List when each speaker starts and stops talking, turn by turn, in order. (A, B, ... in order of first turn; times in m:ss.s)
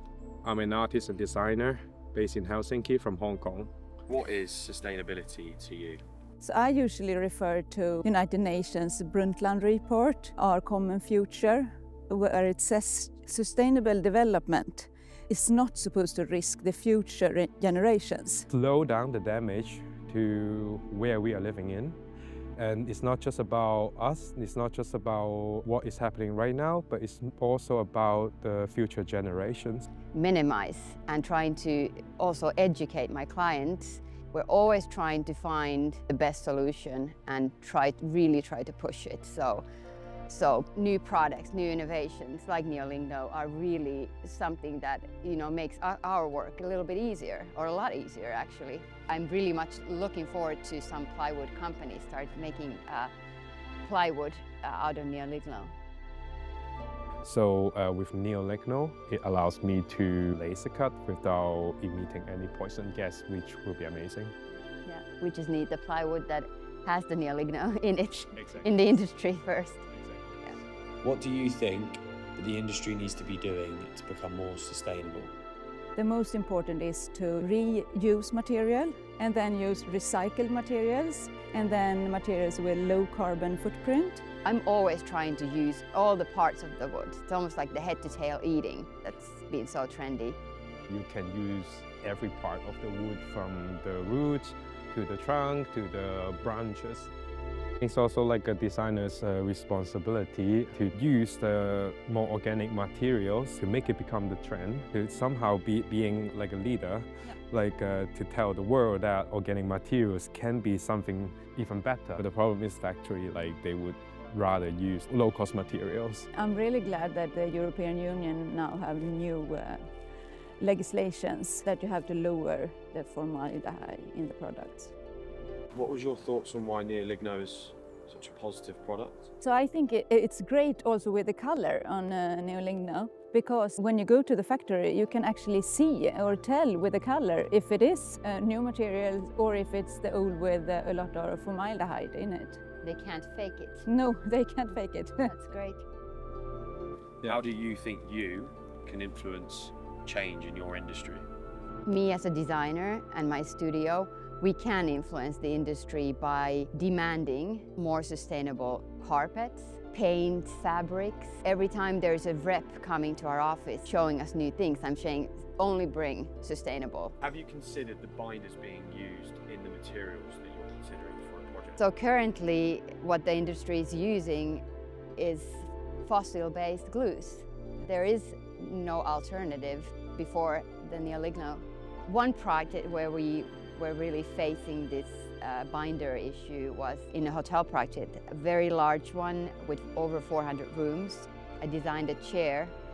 0:00.4-0:03.7 A
0:04.1-0:06.0 B
0:06.4-0:18.5 C
0:18.5-0:22.0 A
0:22.6-0:29.9 A
0:30.1-0:39.6 D
0:40.3-0:53.1 D
0:53.8-0:55.7 D
0:57.2-1:04.3 A
1:04.8-1:09.8 D
1:08.4-1:08.7 A
1:09.9-1:10.2 A
1:11.3-1:11.8 B
1:12.9-1:13.6 B
1:14.2-1:15.3 B
1:16.0-1:24.2 C
1:24.4-1:30.4 D
1:30.9-1:37.1 A
1:37.8-1:56.3 A
1:56.3-1:59.9 C
2:00.6-2:04.9 C
2:05.7-2:09.3 B
2:09.4-2:22.6 C
2:22.8-2:23.8 D
2:23.8-2:25.3 C
2:25.2-2:25.8 D
2:27.2-2:31.2 B
2:31.8-2:47.1 D
2:47.2-2:51.8 B
2:51.8-2:54.6 D
2:55.2-3:12.7 D